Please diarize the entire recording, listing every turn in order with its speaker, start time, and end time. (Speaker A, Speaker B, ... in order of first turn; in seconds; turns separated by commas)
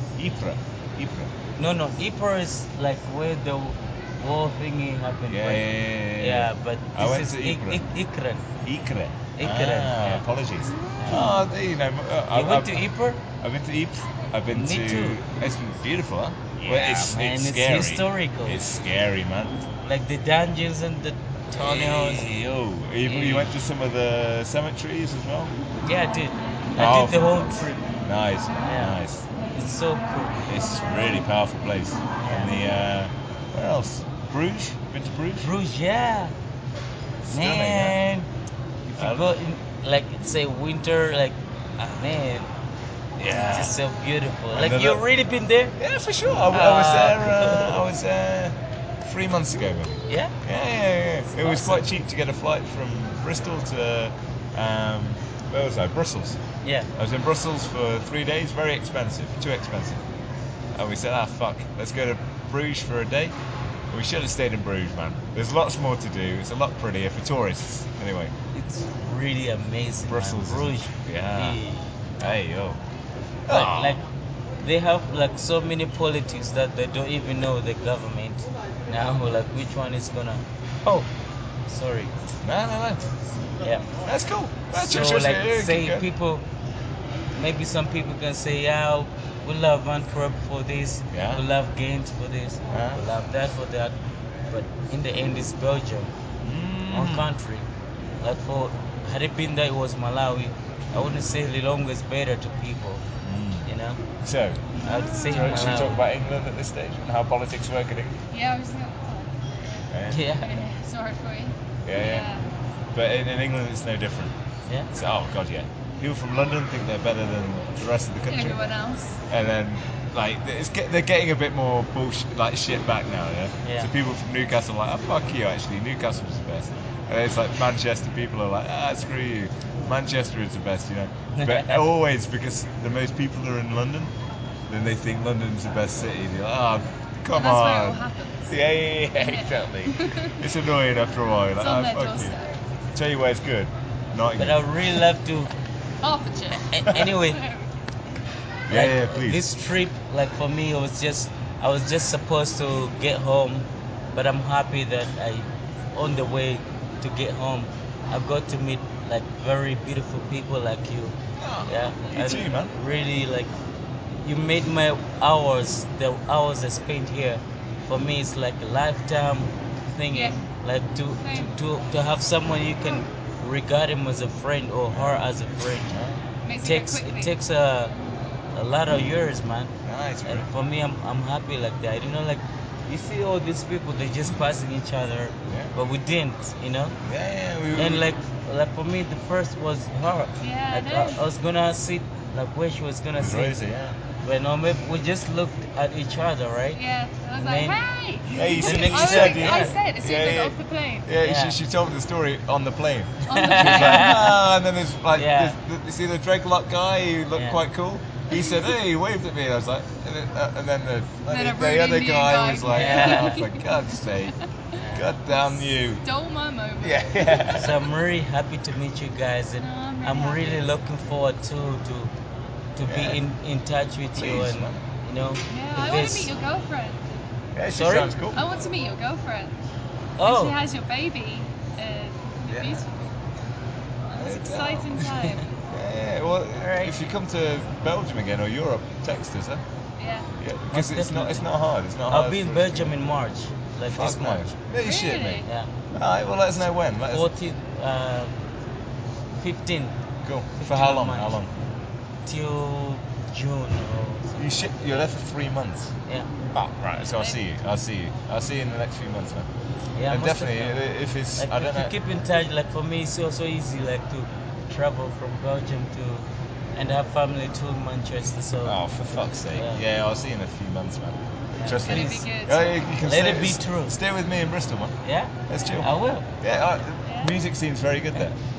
Speaker A: 0.2-1.3, Speaker B: 1.6-8.5, Speaker A: 5.3-7.8, Speaker A: 8.6-12.9, Speaker B: 9.4-10.2, Speaker C: 10.8-11.3, Speaker B: 11.0-11.4, Speaker B: 12.3-13.2, Speaker A: 13.4-19.7, Speaker B: 14.5-15.2, Speaker B: 16.6-18.6, Speaker B: 19.8-22.3, Speaker A: 21.5-25.6, Speaker B: 23.0-23.5, Speaker B: 25.8-27.8, Speaker A: 26.8-29.3, Speaker B: 28.6-29.0, Speaker B: 29.5-30.5, Speaker A: 30.5-35.5, Speaker B: 32.2-32.6, Speaker B: 35.4-36.4, Speaker A: 37.2-38.0, Speaker B: 37.3-38.3, Speaker B: 38.9-42.5, Speaker A: 39.0-39.3, Speaker A: 43.2-43.8, Speaker B: 43.2-45.8, Speaker A: 44.5-45.0, Speaker A: 45.8-56.4, Speaker B: 46.5-47.8, Speaker B: 50.1-50.4, Speaker B: 51.4-51.8, Speaker B: 56.6-56.9, Speaker A: 57.0-60.0, Speaker A: 60.7-63.4, Speaker A: 63.9-68.3, Speaker B: 68.5-71.9, Speaker A: 70.1-71.6, Speaker A: 72.2-72.8, Speaker A: 73.5-74.0, Speaker B: 73.5-74.1, Speaker B: 74.6-81.1, Speaker B: 81.7-82.1, Speaker A: 82.4-83.1, Speaker B: 83.6-83.9, Speaker A: 84.0-86.0, Speaker B: 84.7-86.5, Speaker B: 87.3-94.0, Speaker A: 91.1-91.4, Speaker A: 92.7-93.0, Speaker B: 94.5-96.1, Speaker A: 96.4-97.3, Speaker B: 96.9-97.7, Speaker B: 98.2-103.0, Speaker A: 103.2-103.7, Speaker B: 103.7-104.0, Speaker A: 104.2-104.7, Speaker C: 104.8-105.8, Speaker B: 104.8-106.0, Speaker A: 105.3-108.2, Speaker C: 108.3-109.9, Speaker A: 109.9-110.3, Speaker B: 110.1-110.7, Speaker C: 110.4-112.5, Speaker A: 111.9-112.3, Speaker A: 112.9-114.3, Speaker A: 114.9-118.6, Speaker C: 118.3-119.2, Speaker A: 119.3-134.1, Speaker B: 123.6-123.9, Speaker B: 131.4-131.8, Speaker A: 134.7-142.4, Speaker C: 137.3-138.6, Speaker C: 139.2-140.4, Speaker C: 141.6-142.5, Speaker A: 142.9-145.0, Speaker B: 144.4-145.5, Speaker C: 146.0-147.8, Speaker B: 146.7-147.4, Speaker A: 148.7-149.5, Speaker B: 148.7-163.5, Speaker A: 161.4-162.8, Speaker B: 164.2-176.0, Speaker C: 170.1-170.4, Speaker C: 171.2-171.6, Speaker A: 174.9-175.2, Speaker A: 175.9-176.2, Speaker C: 176.4-177.3, Speaker B: 176.6-177.9, Speaker B: 178.5-187.0, Speaker A: 179.8-180.5, Speaker A: 185.5-185.7, Speaker A: 187.0-188.1, Speaker B: 187.8-193.6, Speaker C: 190.4-191.2, Speaker A: 193.2-194.0, Speaker B: 194.2-196.8, Speaker C: 196.8-201.1, Speaker B: 197.4-197.8, Speaker A: 198.3-214.3, Speaker B: 198.4-199.8, Speaker B: 201.2-201.6, Speaker C: 203.3-204.3, Speaker B: 203.3-204.3, Speaker B: 205.2-205.6, Speaker B: 207.3-207.6, Speaker C: 208.3-208.7, Speaker C: 211.3-213.7, Speaker B: 212.7-213.4, Speaker B: 214.8-215.1, Speaker A: 214.9-216.0, Speaker C: 215.3-217.5, Speaker A: 216.8-217.8, Speaker B: 217.5-222.1, Speaker C: 219.6-220.7, Speaker B: 222.8-226.3, Speaker A: 222.8-223.2, Speaker A: 224.2-224.8, Speaker C: 225.5-227.1, Speaker A: 227.6-228.4, Speaker B: 227.7-228.1, Speaker C: 228.3-229.6, Speaker B: 230.2-230.6, Speaker C: 230.2-233.2, Speaker A: 232.5-232.8, Speaker C: 234.1-235.5, Speaker A: 234.2-235.1, Speaker A: 235.7-239.6, Speaker B: 236.6-236.9, Speaker C: 240.0-240.3, Speaker A: 240.4-243.0, Speaker B: 240.7-241.4, Speaker B: 242.1-244.5, Speaker A: 243.9-247.3, Speaker C: 244.8-245.5, Speaker B: 245.4-245.7, Speaker B: 247.1-248.4, Speaker B: 249.4-250.0, Speaker A: 250.2-251.5, Speaker B: 250.6-251.4, Speaker B: 252.3-255.1, Speaker A: 254.4-255.9, Speaker A: 256.5-259.5, Speaker C: 257.0-257.4, Speaker B: 260.0-260.8, Speaker A: 260.1-261.9, Speaker B: 261.4-268.8, Speaker A: 268.6-275.0, Speaker B: 269.6-269.8, Speaker B: 271.6-272.2, Speaker C: 271.8-272.9, Speaker B: 273.0-274.0, Speaker B: 275.0-276.3, Speaker A: 275.5-278.4, Speaker C: 277.0-277.4